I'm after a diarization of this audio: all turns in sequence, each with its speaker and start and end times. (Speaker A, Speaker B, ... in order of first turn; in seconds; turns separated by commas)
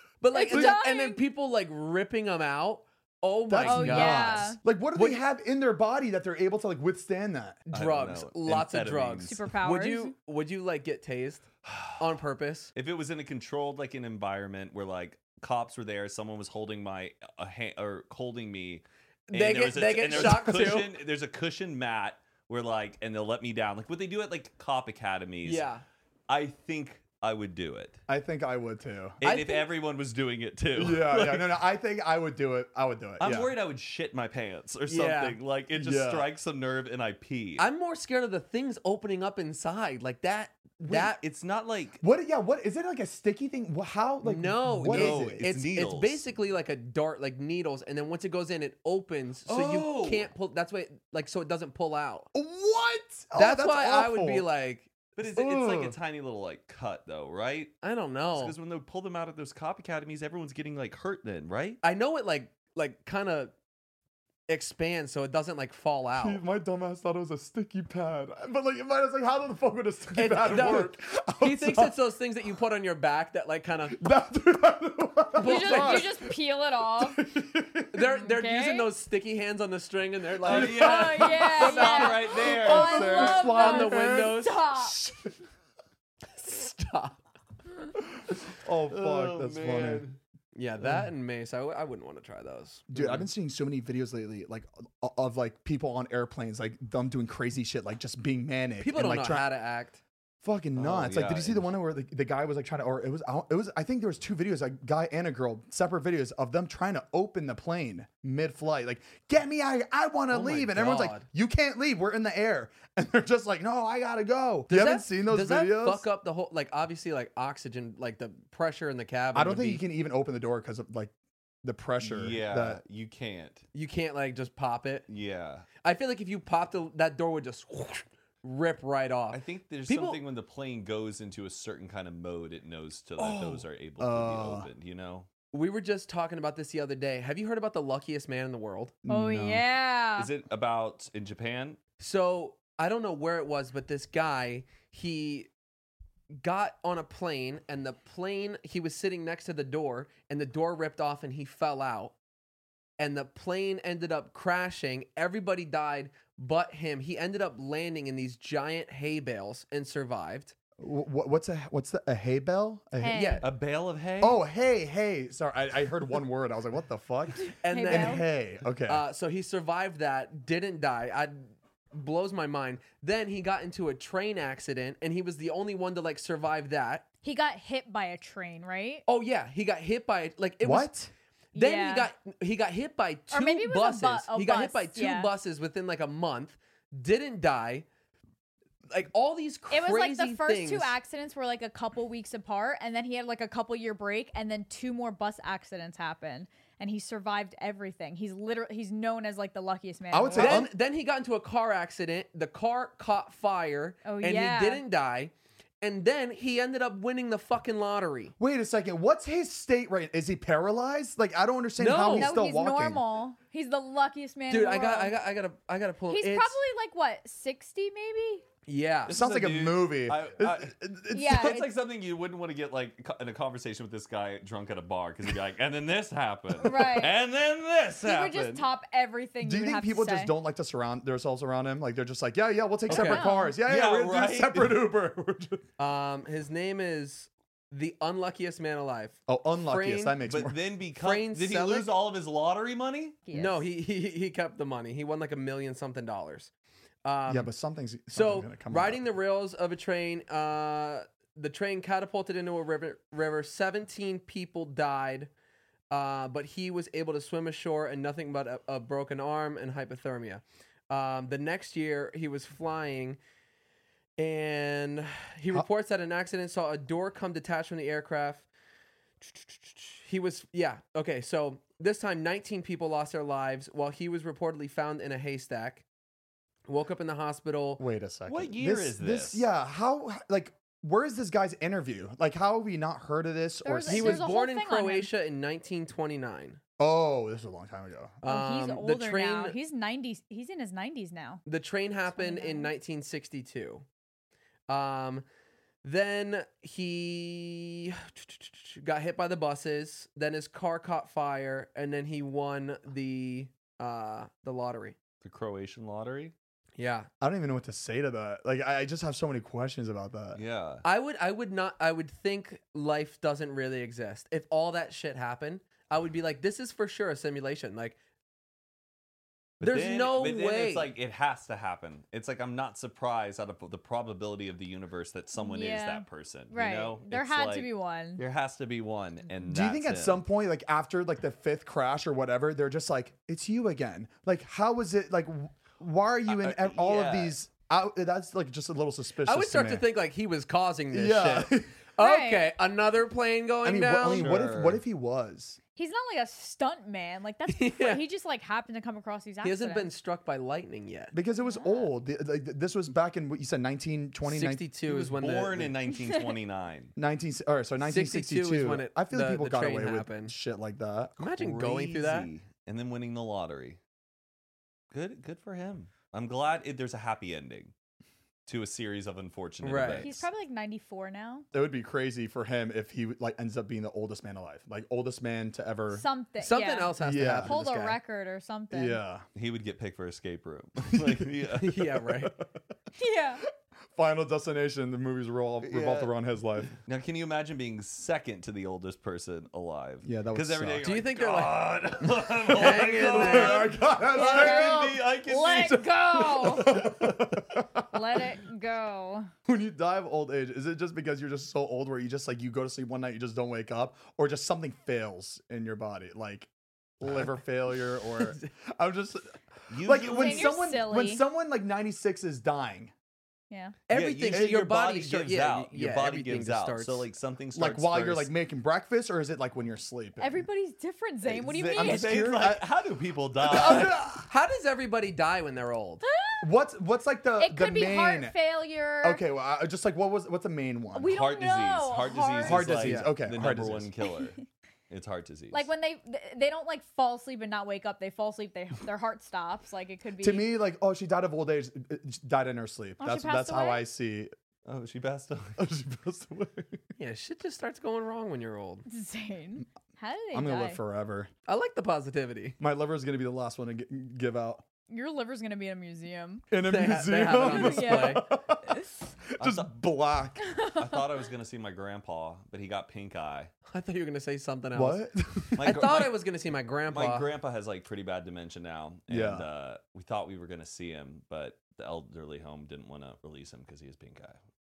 Speaker A: 0.2-5.2, Speaker B: 0.3-1.2, Speaker C: 0.5-0.8, Speaker C: 3.5-7.6, Speaker B: 3.6-4.6, Speaker A: 7.7-11.5, Speaker D: 7.7-9.5, Speaker B: 9.2-10.2, Speaker D: 11.7-12.0, Speaker A: 12.0-12.7, Speaker D: 12.8-25.7, Speaker A: 19.3-20.9, Speaker A: 25.4-25.8, Speaker D: 26.3-28.0, Speaker C: 28.1-29.2, Speaker D: 29.2-31.6, Speaker A: 29.2-29.7, Speaker C: 30.8-33.5, Speaker D: 33.2-37.7, Speaker A: 34.9-35.4, Speaker C: 35.7-36.3, Speaker A: 37.6-41.2, Speaker D: 40.9-42.0, Speaker C: 42.0-45.4, Speaker A: 44.2-52.3, Speaker D: 44.8-46.2, Speaker D: 49.5-50.3, Speaker C: 52.3-54.5, Speaker A: 53.4-54.9, Speaker D: 55.2-57.7, Speaker C: 55.2-56.0, Speaker A: 57.8-58.5, Speaker D: 58.3-61.8, Speaker A: 61.8-63.5, Speaker A: 64.5-66.4, Speaker C: 66.1-72.0, Speaker A: 70.2-74.0, Speaker C: 73.9-76.3, Speaker A: 75.4-76.2, Speaker B: 75.4-77.2, Speaker C: 77.0-78.0, Speaker A: 77.9-84.7, Speaker B: 78.0-78.9, Speaker D: 80.4-83.5, Speaker B: 80.6-85.0, Speaker C: 82.3-85.3, Speaker A: 86.3-87.2, Speaker C: 88.6-90.1, Speaker D: 88.9-90.2, Speaker A: 90.5-93.3, Speaker C: 90.8-91.1, Speaker C: 92.9-99.5, Speaker A: 98.8-100.0, Speaker C: 100.4-116.1, Speaker D: 100.8-101.7, Speaker A: 110.3-111.3, Speaker A: 114.7-119.8, Speaker C: 119.3-121.1, Speaker C: 121.6-122.8, Speaker D: 122.0-123.7, Speaker A: 123.7-125.1, Speaker D: 125.1-125.7, Speaker A: 125.8-130.2, Speaker D: 129.3-135.3, Speaker A: 133.2-133.6, Speaker C: 134.0-134.7, Speaker A: 135.5-139.0, Speaker C: 139.1-139.7, Speaker B: 139.1-140.3, Speaker D: 140.2-141.8, Speaker A: 142.0-145.5, Speaker A: 146.4-152.2, Speaker A: 153.0-160.5, Speaker C: 160.8-163.4, Speaker B: 163.0-163.4, Speaker A: 163.1-163.5, Speaker D: 163.4-164.4, Speaker C: 164.2-169.1, Speaker A: 167.6-168.3, Speaker B: 167.7-168.2, Speaker A: 168.9-177.1, Speaker B: 177.2-179.0, Speaker A: 179.1-181.0, Speaker C: 180.6-181.1, Speaker B: 181.5-182.1, Speaker A: 181.6-187.9, Speaker B: 183.3-185.3, Speaker A: 188.9-191.0, Speaker B: 189.7-200.7, Speaker C: 200.1-200.7, Speaker A: 200.3-208.3, Speaker B: 204.0-204.8, Speaker C: 208.4-213.0, Speaker A: 211.8-212.3, Speaker B: 212.0-215.2, Speaker A: 214.5-216.6, Speaker B: 216.1-218.4, Speaker A: 218.7-219.2, Speaker D: 219.1-220.8, Speaker C: 219.1-221.6, Speaker B: 221.1-221.7, Speaker D: 221.3-228.7, Speaker B: 226.6-227.2, Speaker B: 228.0-230.3, Speaker C: 229.4-235.7, Speaker A: 232.9-233.2, Speaker B: 232.9-233.6, Speaker D: 233.6-234.8, Speaker A: 235.8-240.2, Speaker C: 239.3-240.6, Speaker D: 240.3-243.2, Speaker A: 241.0-241.9, Speaker B: 243.3-243.6, Speaker A: 243.3-246.5, Speaker A: 247.0-247.5, Speaker C: 247.3-249.0, Speaker A: 248.1-255.3, Speaker A: 255.9-263.2, Speaker A: 264.2-268.5, Speaker A: 269.2-275.8, Speaker A: 276.7-277.8, Speaker C: 277.8-284.2, Speaker D: 278.3-279.5, Speaker B: 283.6-285.1, Speaker A: 283.9-286.6, Speaker C: 286.8-288.2, Speaker A: 288.2-289.6, Speaker B: 288.2-291.4, Speaker A: 291.4-293.9, Speaker B: 292.1-292.7, Speaker A: 294.7-295.2, Speaker A: 295.8-305.0, Speaker D: 305.2-306.3, Speaker A: 306.8-307.1, Speaker C: 307.2-310.4, Speaker D: 310.3-310.8, Speaker A: 310.8-318.0, Speaker D: 319.6-330.2, Speaker A: 319.6-320.9, Speaker B: 325.4-328.2, Speaker C: 329.4-339.9, Speaker D: 336.3-337.4, Speaker A: 339.2-344.5, Speaker C: 340.9-341.7, Speaker B: 342.0-342.5, Speaker C: 343.6-345.6, Speaker D: 344.1-344.8, Speaker B: 345.8-349.9, Speaker A: 347.5-348.0, Speaker A: 349.4-351.1, Speaker C: 351.1-354.6, Speaker B: 351.4-351.9, Speaker A: 354.3-355.8, Speaker D: 354.9-356.9, Speaker B: 355.9-356.3, Speaker C: 357.0-361.2, Speaker A: 357.8-360.3, Speaker A: 361.2-362.3, Speaker D: 361.3-363.8, Speaker D: 364.9-367.7, Speaker D: 368.5-370.2, Speaker A: 369.6-370.1, Speaker B: 370.0-371.5, Speaker C: 371.5-376.1, Speaker B: 375.9-379.0, Speaker A: 376.4-378.0, Speaker C: 377.0-377.5, Speaker C: 378.7-379.2, Speaker D: 379.4-382.0, Speaker C: 380.9-381.3, Speaker A: 381.6-382.3, Speaker B: 383.0-383.4, Speaker C: 384.0-386.7, Speaker D: 385.6-386.1, Speaker D: 386.8-395.9, Speaker C: 390.0-390.9, Speaker A: 390.8-391.8, Speaker A: 392.5-393.7, Speaker C: 392.6-395.0, Speaker B: 394.1-396.9, Speaker C: 396.1-398.2, Speaker B: 397.9-399.3, Speaker C: 399.5-406.5, Speaker C: 407.0-412.9, Speaker A: 408.1-408.5, Speaker D: 409.7-410.6, Speaker B: 410.0-411.2, Speaker B: 413.5-413.8, Speaker A: 413.9-417.1, Speaker D: 413.9-418.3, Speaker C: 417.5-420.5, Speaker B: 420.2-422.4, Speaker C: 421.3-422.7, Speaker D: 421.3-424.0, Speaker C: 423.4-424.3, Speaker A: 423.5-426.0, Speaker B: 426.0-426.4, Speaker C: 426.4-428.4, Speaker B: 427.4-429.2, Speaker C: 429.0-431.1, Speaker B: 430.9-432.7, Speaker D: 431.1-435.7, Speaker C: 432.4-433.9, Speaker A: 432.7-433.1, Speaker B: 435.5-440.5, Speaker C: 440.2-444.3, Speaker B: 443.0-443.9, Speaker D: 444.6-445.6, Speaker C: 445.6-446.8, Speaker A: 447.0-448.9, Speaker B: 448.9-450.8, Speaker C: 450.3-451.3, Speaker A: 451.5-452.6, Speaker C: 452.6-454.6, Speaker B: 454.9-456.5, Speaker C: 456.5-458.8, Speaker A: 456.6-458.2, Speaker B: 457.3-458.9, Speaker D: 459.4-459.7, Speaker C: 459.4-460.4, Speaker B: 460.4-461.1, Speaker D: 460.8-463.5, Speaker A: 463.7-465.1, Speaker C: 464.7-465.8, Speaker D: 465.6-466.2, Speaker A: 465.6-467.3, Speaker D: 466.9-474.4, Speaker C: 469.1-469.5